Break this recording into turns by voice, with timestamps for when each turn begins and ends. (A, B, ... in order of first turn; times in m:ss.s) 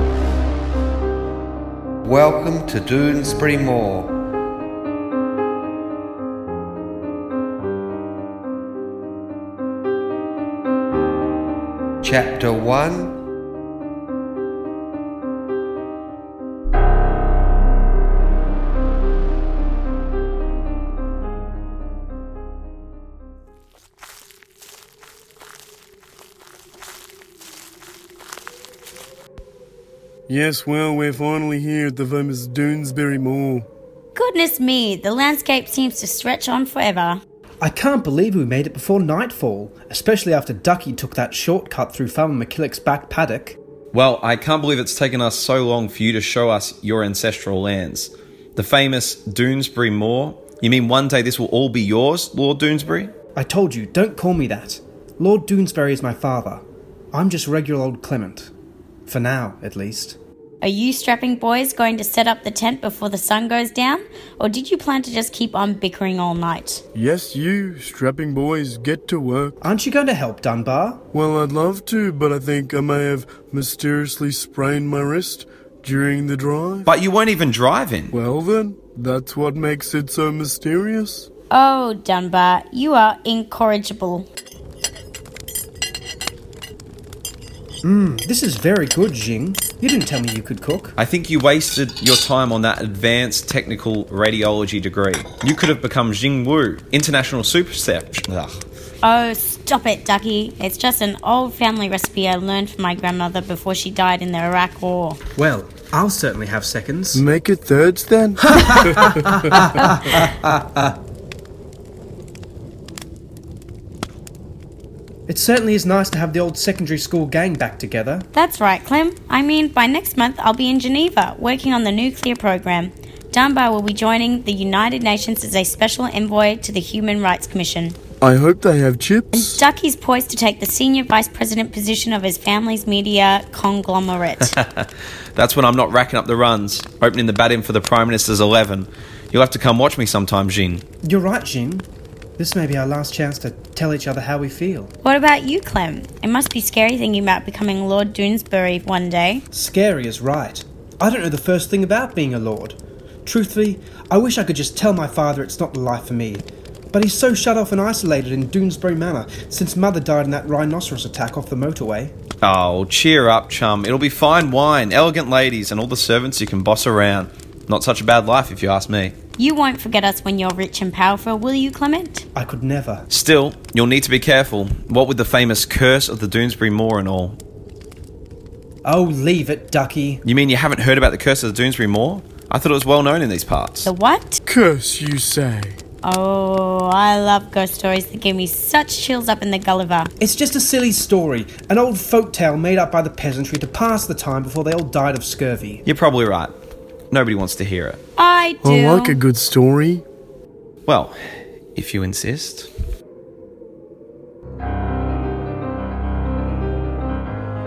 0:02.0-0:04.1 A
0:12.0-0:13.1 A
0:30.3-0:33.7 B
0:34.1-0:37.2 C
0:37.6-0:43.6 D
0:43.9-0:53.1 E
0:53.4-0:58.5 D
0:59.1-1:00.2 D
1:00.6-1:06.8 C
1:06.9-1:09.5 B
1:09.6-1:11.0 D
1:11.1-1:16.9 B
1:16.9-1:18.2 E
1:18.1-1:21.3 B
1:21.5-1:24.3 C
1:27.8-1:31.0 D
1:31.0-1:38.6 E
1:39.0-1:45.2 C
1:45.4-1:47.2 D
1:47.1-1:49.8 B
1:48.4-1:51.0 D
1:55.3-1:58.3 D
1:58.3-2:08.0 C
2:08.2-2:09.6 B
2:09.3-2:14.5 C
2:14.5-2:20.8 E
2:21.0-2:21.9 D
2:22.4-2:24.9 D
2:25.0-2:29.4 C
2:29.5-2:42.1 D
2:42.4-2:49.1 E
2:49.4-2:52.2 C
2:52.3-2:53.0 D
2:53.1-2:57.4 E
2:58.8-3:00.2 D
3:00.2-3:03.9 E
3:03.8-3:04.4 C
3:04.4-3:05.8 B
3:06.0-3:10.1 C
3:10.2-3:15.8 D
3:15.8-3:16.5 E
3:17.1-3:18.0 E
3:18.2-3:19.2 C
3:18.6-3:20.0 B
3:20.8-3:21.2 E
3:21.7-3:22.7 E